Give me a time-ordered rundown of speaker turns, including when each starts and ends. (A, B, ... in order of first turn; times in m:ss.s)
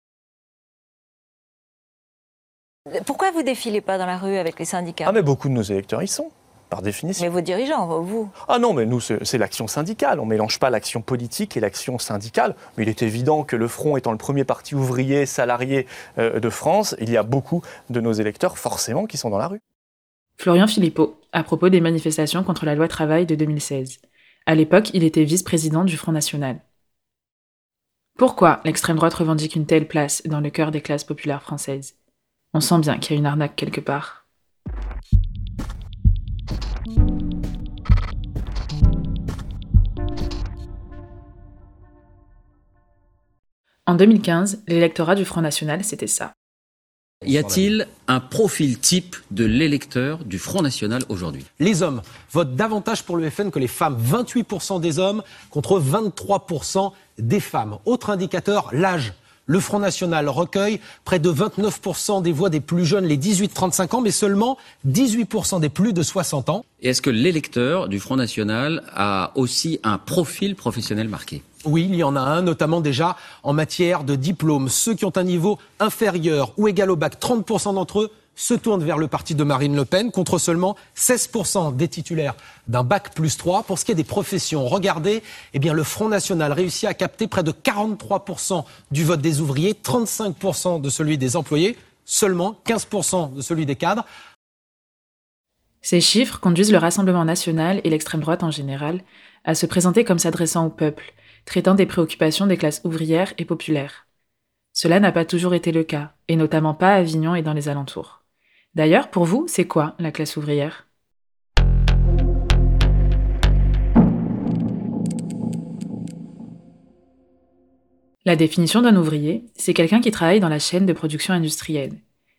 0:02.9-0:05.2 A
0:05.0-0:07.2 B
0:07.2-0:08.3 A
0:08.4-0:19.6 B
0:20.4-0:26.6 C
0:28.2-0:31.9 C
0:32.5-0:34.2 C
0:43.9-0:46.3 C
0:47.2-0:51.5 D
0:47.3-0:47.6 E
0:51.6-1:06.6 E
1:06.8-1:11.4 D
1:11.6-1:34.0 E
1:35.8-1:44.0 C
1:44.7-1:48.2 C
1:48.7-1:50.9 C
1:58.2-2:02.0 C